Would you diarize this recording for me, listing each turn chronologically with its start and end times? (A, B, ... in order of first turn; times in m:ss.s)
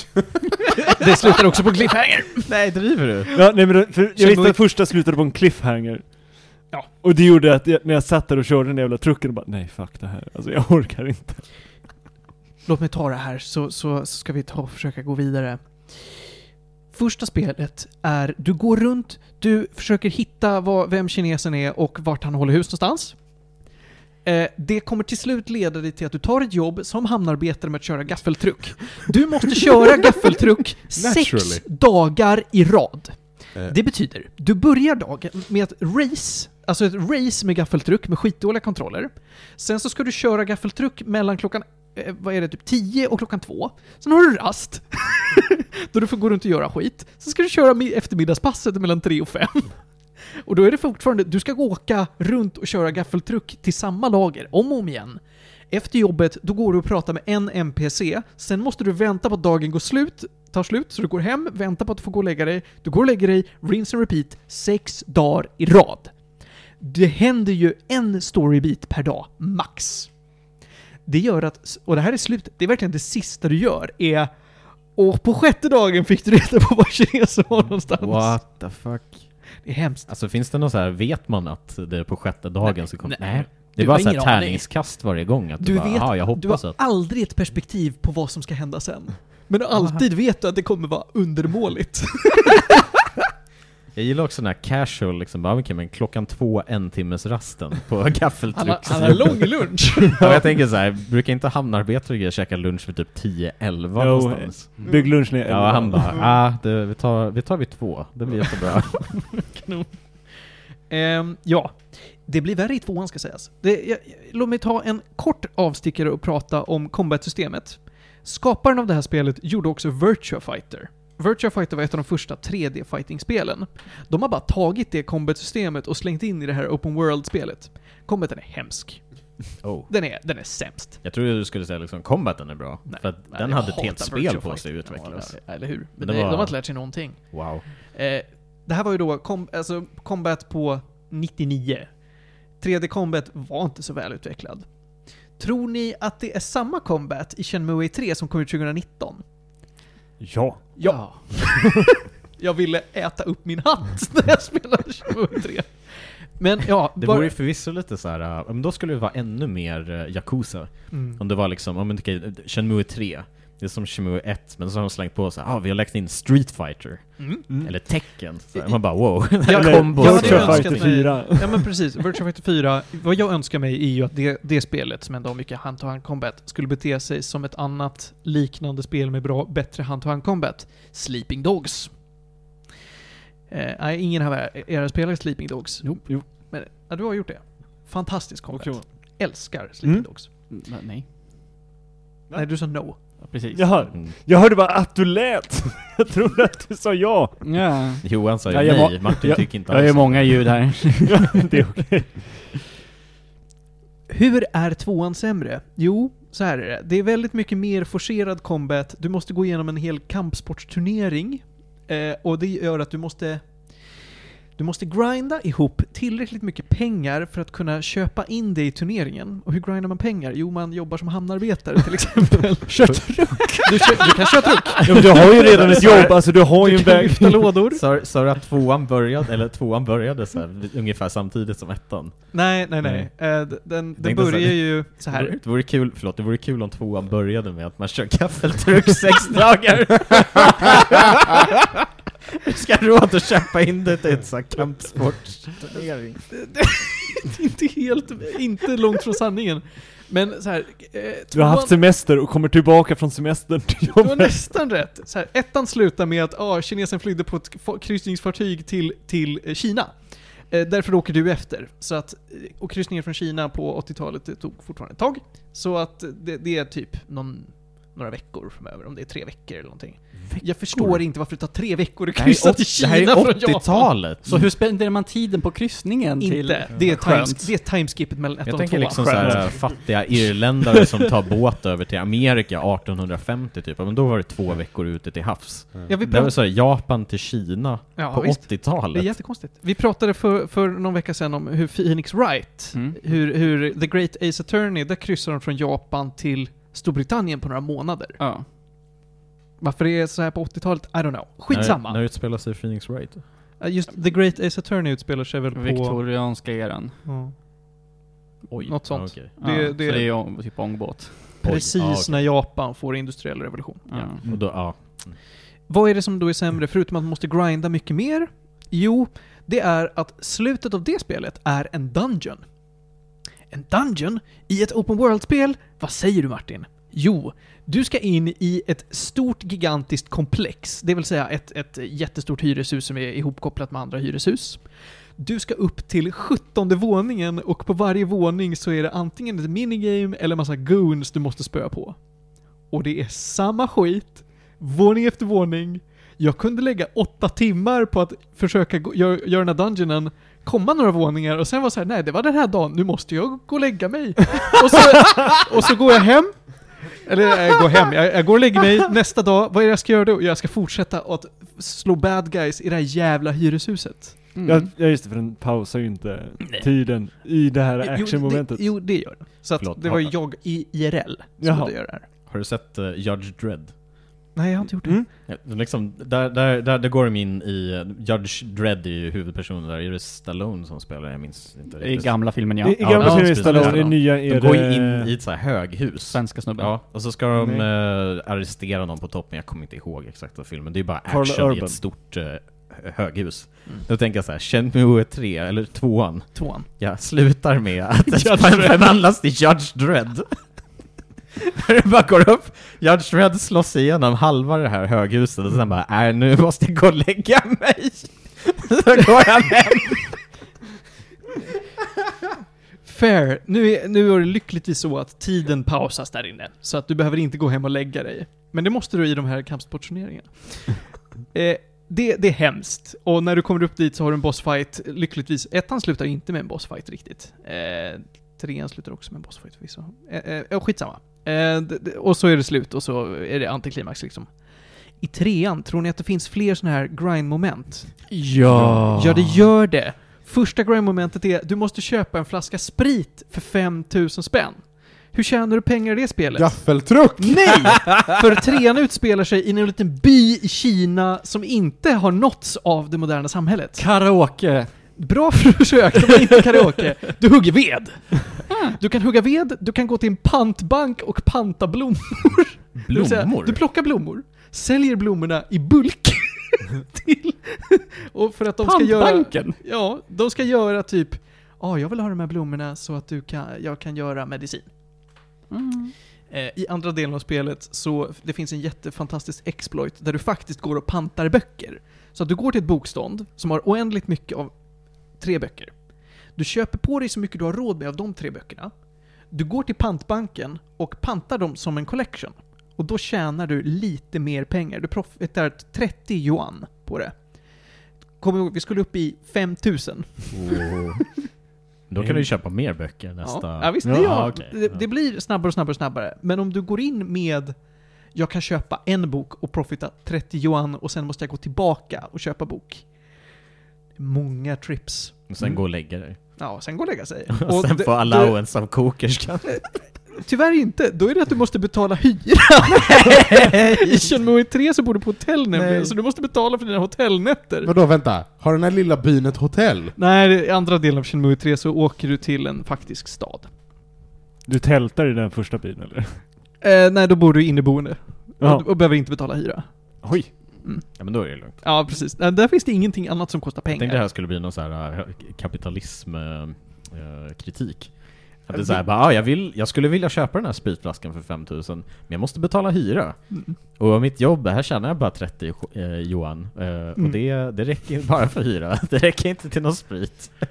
0:00.5-0:02.5 A
0:02.4-0:03.3 B
0:03.4-0:06.1 C
0:04.2-0:04.6 A
0:07.0-0:11.4 C
0:12.6-0:16.3 A
0:16.9-0:23.2 A
0:24.2-0:49.8 A
0:31.0-0:31.6 D
0:50.4-0:55.2 A
0:55.7-1:06.1 A
1:06.8-1:10.1 A
1:11.0-1:14.3 A
1:15.0-1:18.4 A
1:18.0-1:19.3 B
1:19.6-1:20.1 A
1:20.0-1:26.8 B
1:22.6-1:24.7 A
1:25.6-1:32.8 A
1:33.9-1:49.3 B
1:38.5-1:40.4 A
1:44.0-1:46.2 C
1:44.8-1:45.1 A
1:49.1-1:49.9 A
1:50.9-2:09.0 A
2:09.6-2:09.9 B
2:09.9-2:11.0 A
2:11.0-2:15.4 B
2:12.9-2:21.9 A
2:16.0-2:16.6 B
2:17.2-2:17.6 B
2:22.6-2:24.6 A
2:25.4-2:29.2 A
2:30.2-2:30.8 C
2:30.8-2:37.3 A
2:30.8-2:31.1 E
2:37.0-2:51.0 B
2:40.9-2:41.2 A
2:47.2-2:47.4 A
2:49.4-3:01.9 A
2:49.5-2:51.7 C
3:03.5-3:10.3 A
3:06.0-3:06.3 C
3:08.5-3:08.9 C
3:10.5-3:11.1 E
3:12.3-3:13.1 A
3:13.2-3:13.9 E
3:13.5-3:17.5 C
3:17.4-3:21.5 E
3:18.0-3:20.6 B
3:21.1-3:22.5 C
3:24.1-3:33.5 A
3:34.6-3:47.8 A
3:42.8-3:43.6 B
3:44.8-3:47.6 C
3:45.7-3:46.0 B
3:47.7-3:53.1 B
3:52.3-3:55.4 A
3:54.0-4:01.7 B
4:02.3-4:06.2 B
4:06.3-4:11.8 A
4:11.3-4:14.4 C
4:13.9-4:33.9 A
4:30.2-4:31.0 B
4:32.1-4:34.5 B
4:34.2-4:37.5 E
4:36.2-4:39.7 A
4:38.4-4:49.1 B
4:45.9-4:46.3 A
4:48.0-4:58.2 A
4:52.7-4:53.0 E
4:58.2-4:58.4 E
4:59.6-5:02.0 A
5:01.5-5:03.2 B
5:03.6-5:06.0 A
5:05.5-5:06.9 E
5:07.0-5:07.3 A
5:08.5-5:09.3 B
5:08.6-5:10.1 A
5:09.4-5:11.4 E
5:11.4-5:14.1 A
5:11.4-5:12.2 B
5:13.9-5:14.2 E
5:14.2-5:15.2 B
5:15.7-5:22.4 A
5:23.5-5:34.6 A
5:35.2-5:42.0 A
5:42.7-6:04.3 A
6:04.4-6:04.7 E
6:04.4-6:08.7 C
6:07.8-6:12.0 A
6:09.6-6:10.1 B
6:11.4-6:11.7 C
6:12.2-6:13.7 B
6:14.3-6:15.0 A
6:15.2-6:22.2 B
6:21.8-6:23.9 E
6:22.6-6:25.1 C
6:22.8-6:40.3 B
6:26.1-6:26.7 E
6:27.4-6:27.7 C
6:31.1-6:31.8 C
6:36.3-6:36.7 A
6:38.1-6:38.8 A
6:41.4-6:50.1 B
6:52.8-7:14.3 A
7:15.0-7:18.0 A
7:18.1-7:19.4 E
7:18.9-7:26.6 A
7:26.3-7:28.0 D
7:27.2-7:33.8 A
7:33.8-7:34.7 E
7:35.0-7:54.7 A
7:42.8-7:43.6 B
7:48.6-7:49.6 E
7:55.5-7:55.9 E
7:56.3-8:04.5 A
8:05.2-8:05.7 A
8:06.3-8:08.7 A
8:09.3-8:17.1 A
8:18.2-8:20.7 A
8:20.3-8:21.1 B
8:21.9-8:24.8 B
8:22.0-8:22.3 C
8:23.2-8:27.6 A
8:28.1-8:32.8 A
8:34.0-8:35.2 A
8:35.3-8:36.2 B
8:36.4-8:38.4 A
8:37.3-8:39.6 B
8:39.5-8:47.7 A
8:42.8-8:44.1 B
8:45.5-8:45.9 B
8:47.6-8:49.9 D
8:50.0-8:53.5 A
8:54.5-8:56.2 C
8:56.6-8:59.7 A
8:58.4-8:58.7 C
9:00.0-9:00.3 C
9:00.6-9:01.0 A
9:01.0-9:01.6 B
9:01.5-9:04.0 A
9:03.7-9:07.9 B
9:08.5-9:13.2 B
9:08.5-9:08.8 A
9:13.3-9:13.6 A
9:13.8-9:20.4 B